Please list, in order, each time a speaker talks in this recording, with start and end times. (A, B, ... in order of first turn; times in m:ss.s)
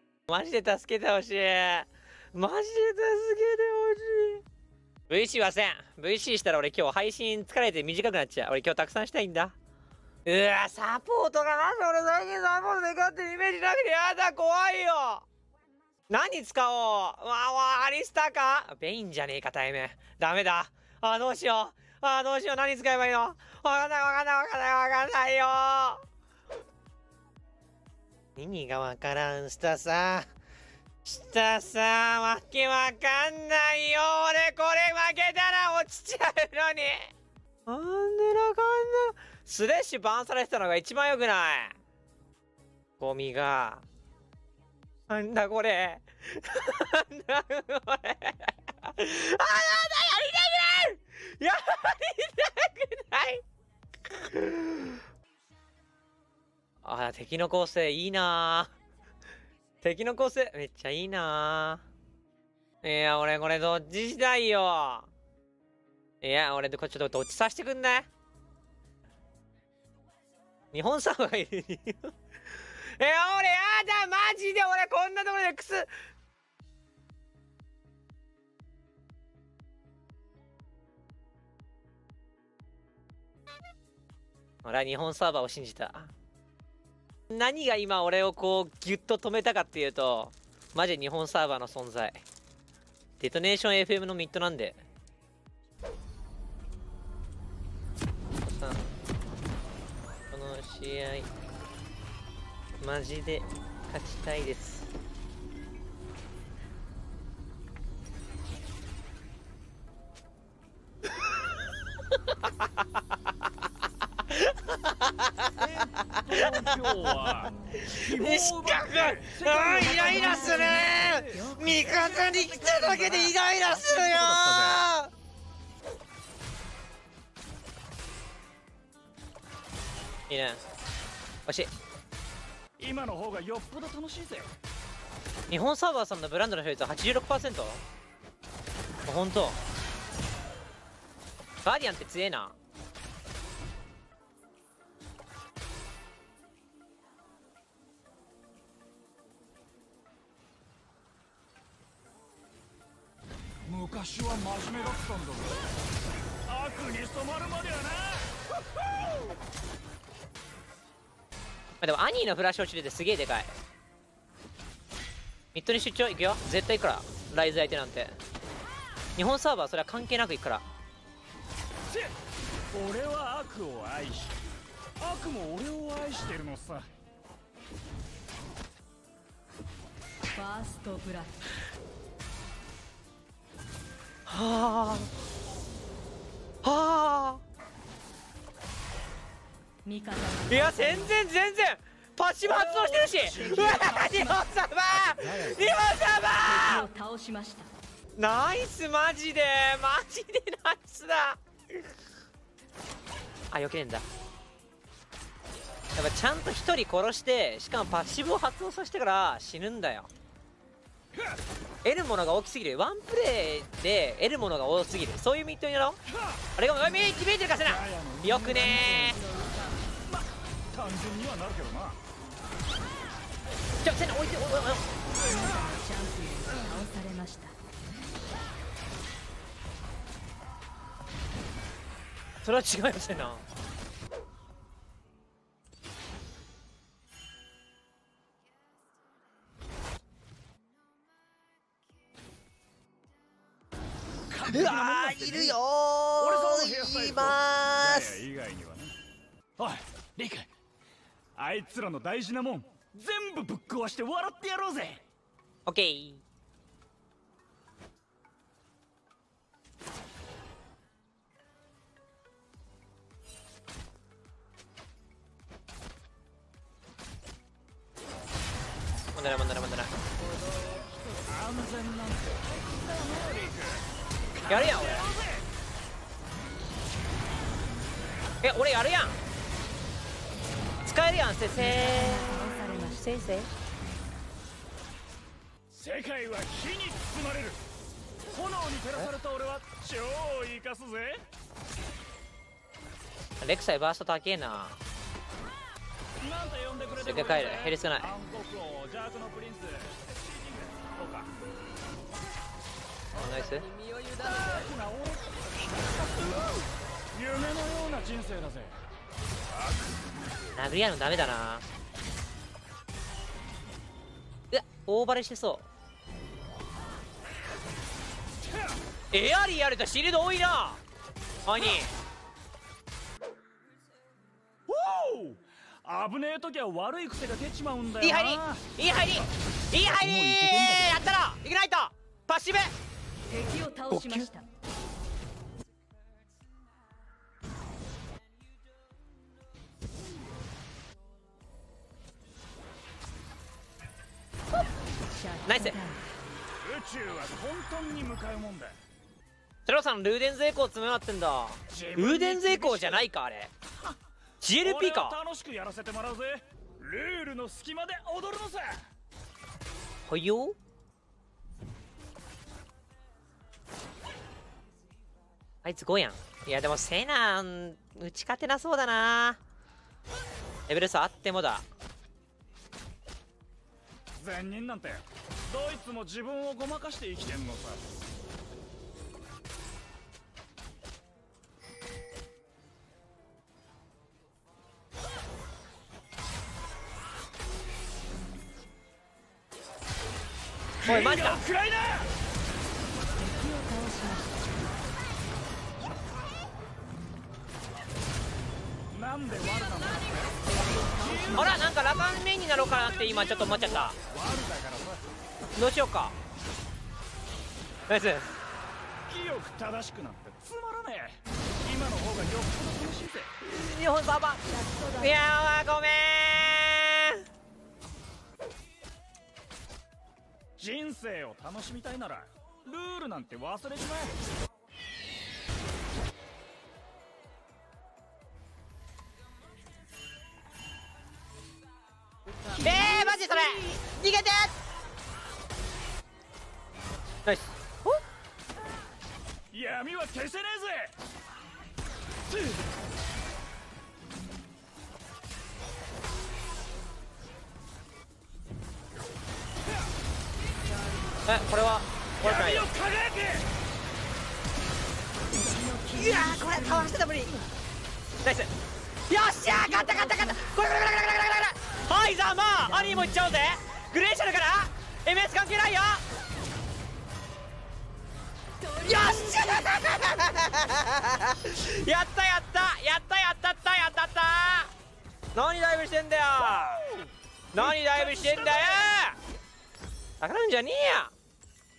0:00.3-0:04.4 A
0:05.1-0:09.5 A
0:10.2-0:15.2 A
0:16.1-0:26.0 A
0:28.4-0:30.3 A
0:31.0-0:37.1 A
0:37.6-0:41.8 A
0:43.0-0:43.8 A
0:45.1-0:53.4 A
0:54.0-0:55.0 A
0:56.8-0:58.7 A
0:59.8-1:01.8 A
1:02.8-1:05.1 A
1:06.2-1:08.1 A
1:10.7-1:15.9 A
1:24.6-1:26.1 A
1:27.3-1:32.2 A
1:33.2-1:34.8 A
1:38.4-1:39.0 A
1:40.3-1:41.3 A
1:42.8-1:44.9 A
1:54.3-1:57.1 A
1:55.6-2:04.9 B
1:57.7-2:05.1 A
1:59.9-2:01.8 C
2:10.3-2:10.6 A
2:11.4-2:11.7 A
2:12.8-2:14.5 B
2:15.5-2:17.8 A
2:19.0-2:19.6 A
2:21.6-2:22.6 A
2:33.6-2:35.6 B
2:36.5-2:38.4 B
2:41.8-2:43.6 A
2:45.5-2:48.2 A
2:49.2-2:50.6 A
2:52.7-2:54.4 B
2:55.0-2:56.9 B
3:00.3-3:01.5 C
3:04.3-3:05.1 A
3:06.6-3:07.4 A
3:09.8-3:11.2 C
3:10.5-3:16.8 A
3:12.4-3:15.8 B
3:16.4-3:17.7 C
3:18.2-3:21.4 A
3:23.5-3:24.0 A
3:25.9-3:30.1 A
3:31.8-3:36.0 A
3:36.6-3:39.2 A
3:37.6-3:39.3 B
3:40.0-3:42.0 B
3:43.8-3:44.8 A
3:45.2-3:47.5 C
3:52.4-3:53.4 A
4:04.3-4:05.6 B
4:04.5-4:08.2 A
4:06.1-4:08.9 B
4:09.6-4:10.5 B
4:11.4-4:15.0 B
4:15.6-4:16.2 A
4:29.1-4:29.9 A
4:30.5-4:35.4 B
4:34.5-4:35.1 A
4:38.4-4:39.2 A
4:40.8-4:43.5 A
4:41.5-4:43.2 C
4:45.7-4:47.6 B
4:48.3-4:51.2 B
4:53.4-4:54.8 A
4:56.2-5:01.3 B
4:56.9-4:58.1 A
5:03.1-5:03.7 A
5:04.1-5:08.8 B
5:09.6-5:10.0 B
5:10.5-5:11.6 A
5:14.5-5:15.6 A
5:18.5-5:18.8 B
5:19.1-5:20.8 A
5:21.4-5:21.9 A
5:24.7-5:28.7 B
5:28.0-5:32.7 A
5:29.9-5:31.1 B
5:33.3-5:34.4 C
5:33.9-5:34.3 A
5:45.1-5:46.0 C
5:45.4-5:45.8 A
5:46.6-5:48.8 B
5:49.6-5:53.5 A
5:51.7-5:53.0 B
5:54.4-5:55.2 A
5:54.6-5:58.8 B
6:00.0-6:00.6 A
6:05.6-6:09.4 A
6:10.7-6:11.6 A
6:14.2-6:17.8 B
6:30.8-6:32.1 B
6:30.8-6:31.4 A
6:33.2-6:34.4 C
6:38.9-6:41.9 B
6:40.4-6:41.6 C
6:41.4-6:44.0 A
6:42.5-6:45.1 B
6:45.5-6:46.1 A
6:47.9-6:48.3 A
6:49.1-6:53.3 B
6:53.4-6:54.4 A
6:54.4-6:55.2 C
6:55.0-6:57.2 A
7:00.6-7:04.1 B
7:12.5-7:13.8 C
7:12.6-7:14.5 A
7:17.2-7:18.0 A
7:19.5-7:20.9 B
7:22.3-7:22.6 B
7:31.2-7:32.7 A
7:32.2-7:33.4 B
7:35.3-7:37.0 C
7:35.9-7:37.3 A
7:38.2-7:38.5 A
7:39.1-7:46.0 A
7:39.5-7:40.4 C
7:42.6-7:43.4 C
7:48.6-7:49.6 C
7:48.8-7:54.7 A
7:55.3-7:56.8 A
7:56.4-7:58.9 B
7:57.5-7:59.2 A
8:00.2-8:01.1 A